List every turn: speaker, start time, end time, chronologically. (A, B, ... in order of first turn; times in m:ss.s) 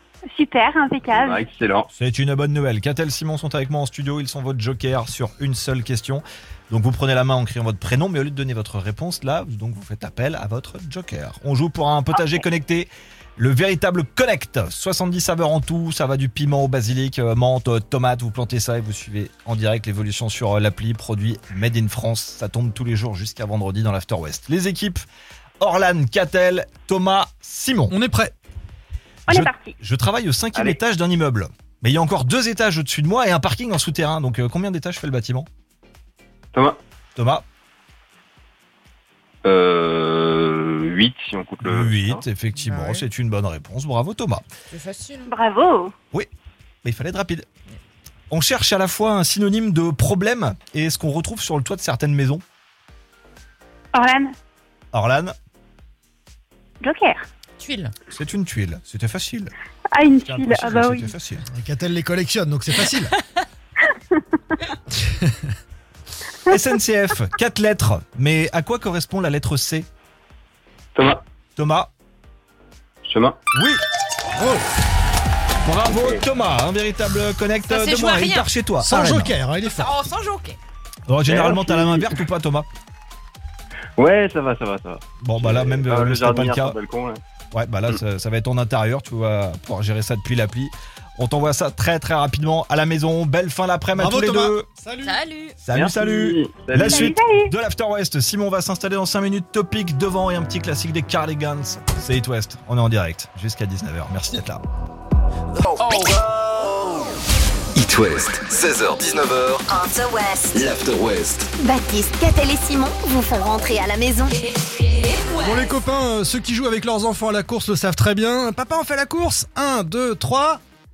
0:00.3-0:01.6 A
0:01.6-0:01.9 B
0:02.0-0:25.0 C
0:25.6-0:27.9 C
0:27.9-0:28.3 D
0:29.3-0:29.7 A
0:29.3-0:35.5 C
0:37.2-0:37.4 C
0:39.4-0:42.2 B
0:41.6-0:44.4 C
0:42.6-0:43.0 E
0:44.7-0:45.3 E
0:45.2-0:45.9 A
0:46.8-0:47.5 C
0:48.3-0:52.4 C
0:53.9-0:54.3 A
0:54.9-0:55.3 C
0:56.8-0:57.2 A
0:57.6-0:57.9 E
0:58.1-0:59.5 C
0:59.9-1:01.1 A
1:00.2-1:01.4 C
1:01.5-1:03.1 D
1:06.5-1:09.9 C
1:11.0-1:11.2 B
1:11.6-1:11.9 C
1:13.0-1:13.3 B
1:13.5-1:13.8 C
1:14.4-1:14.6 D
1:15.6-1:19.4 C
1:17.6-1:18.5 E
1:18.8-1:20.0 D
1:19.6-1:20.6 E
1:21.1-1:22.7 C
1:21.3-1:21.8 B
1:24.0-1:27.2 B
1:25.2-1:26.8 C
1:27.5-1:34.7 C
1:33.9-1:35.2 D
1:35.0-1:35.6 E
1:35.6-1:44.6 C
1:35.8-1:36.8 B
1:36.8-1:37.5 A
1:45.8-1:46.1 E
1:47.7-1:49.6 F
1:49.7-1:50.5 G
1:50.5-1:51.5 F
1:51.6-1:54.3 G
1:55.4-2:00.6 D